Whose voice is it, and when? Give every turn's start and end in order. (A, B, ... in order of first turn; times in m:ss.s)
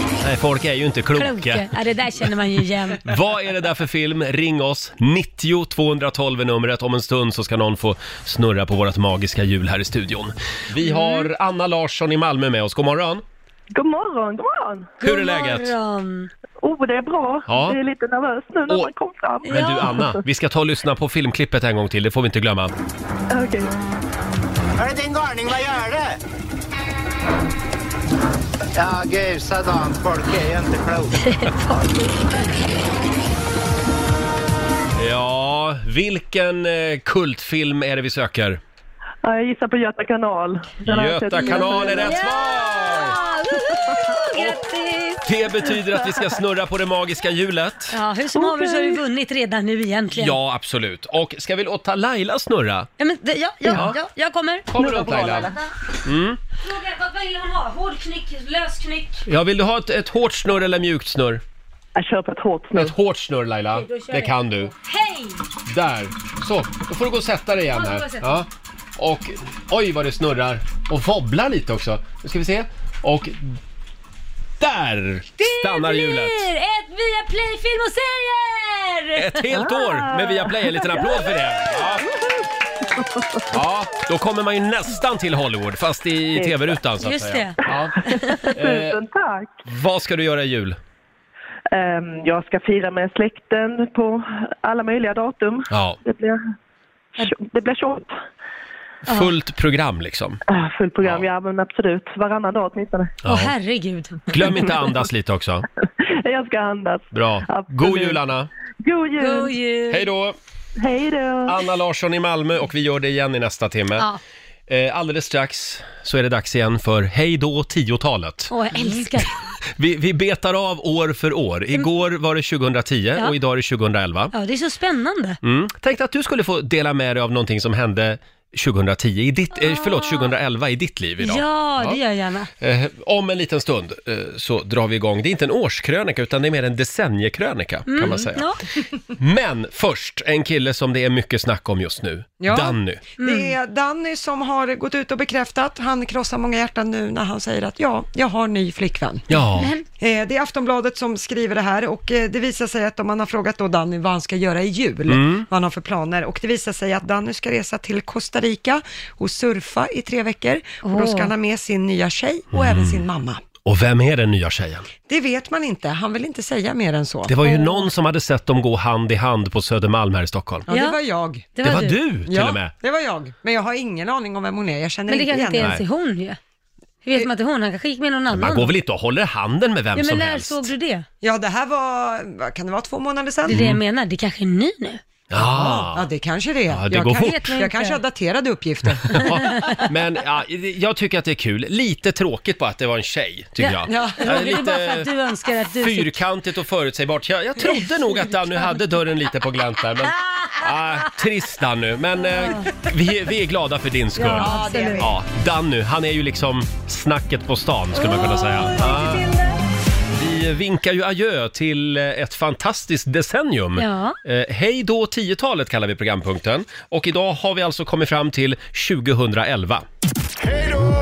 0:00.2-0:01.7 A
0:01.2-0:03.0 B
0:03.1-0:13.2 A
0:10.8-0:11.3 B
0:13.7-0:15.0 C
0:15.0-0:16.3 B
0:15.0-0:15.8 A
0:16.6-0:20.2 C
0:17.5-0:17.8 A
0:19.5-0:22.7 A
0:19.5-0:19.9 B
0:23.3-0:23.7 C
0:24.8-0:26.2 D
0:28.8-0:31.2 D
0:31.2-0:32.5 B
0:35.0-0:38.6 A
0:39.2-0:42.2 C
0:40.9-0:43.2 A
0:41.4-0:45.3 B
0:45.2-0:48.0 A
0:47.9-0:50.4 B
0:50.1-0:52.9 A
0:53.0-0:55.6 B
0:53.7-0:54.0 A
0:54.7-0:55.5 A
0:54.8-0:55.6 C
0:56.0-0:56.4 A
0:56.6-0:59.2 B
0:59.3-1:01.4 A
1:02.0-1:02.9 C
1:02.8-1:04.7 A
1:03.7-1:05.4 B
1:05.7-1:08.5 A
1:07.7-1:08.4 B
1:09.0-1:13.6 A
1:14.6-1:16.5 A
1:15.4-1:19.4 B
1:19.1-1:22.1 A
1:19.6-1:20.4 C
1:22.0-1:22.4 C
1:22.9-1:23.4 C
1:23.5-1:29.0 A
1:26.4-1:26.7 C
1:27.0-1:28.4 B
1:28.1-1:29.6 C
1:29.7-1:30.8 A
1:31.7-1:36.4 C
1:35.7-1:36.0 A
1:37.2-1:38.2 C
1:39.1-1:40.4 A
1:40.5-1:43.2 C
1:43.2-1:43.5 A
1:43.2-1:44.4 B
1:44.3-1:45.7 A
1:46.1-1:48.2 C
1:47.1-1:48.5 A
1:48.8-1:49.6 C
1:49.2-1:50.1 B
1:49.9-1:50.4 A
1:50.8-1:51.6 C
1:51.5-1:54.1 A
1:54.7-1:58.5 A
1:58.5-1:59.4 B
1:59.8-2:04.3 A
2:04.3-2:05.4 B
2:05.4-2:12.0 A
2:09.6-2:10.3 B
2:11.2-2:12.5 B
2:12.6-2:18.5 A
2:17.9-2:18.6 B
2:19.2-2:23.0 A
2:22.4-2:29.3 E
2:23.2-2:23.6 B
2:29.3-2:29.7 A
2:29.6-2:29.8 B
2:30.0-2:43.4 E
2:35.1-2:35.5 A
2:40.8-2:41.3 B
2:42.5-2:43.0 A
2:43.6-2:44.9 A
2:45.1-2:47.4 E
2:47.3-2:50.7 A
2:47.4-2:47.8 B
2:50.7-2:51.5 E
2:50.7-2:51.0 B
2:51.6-2:52.0 B
2:51.6-2:52.7 A
2:52.3-2:55.8 E
2:55.1-2:56.4 B
2:55.6-2:55.8 A
2:57.0-2:58.7 B
2:58.3-3:00.7 A
3:00.0-3:01.1 B
3:01.2-3:03.6 E
3:03.5-3:05.0 B
3:03.5-3:03.8 A
3:05.3-3:06.1 A
3:05.4-3:09.3 E
3:06.7-3:07.6 A
3:07.2-3:08.0 B
3:09.1-3:15.1 A
3:09.4-3:09.8 B
3:13.6-3:16.2 B
3:13.9-3:14.3 E
3:15.8-3:29.3 A
3:22.3-3:22.7 B
3:24.2-3:25.1 B
3:24.3-3:25.1 E
3:28.0-3:29.6 B
3:30.1-3:39.9 A
3:33.8-3:34.2 B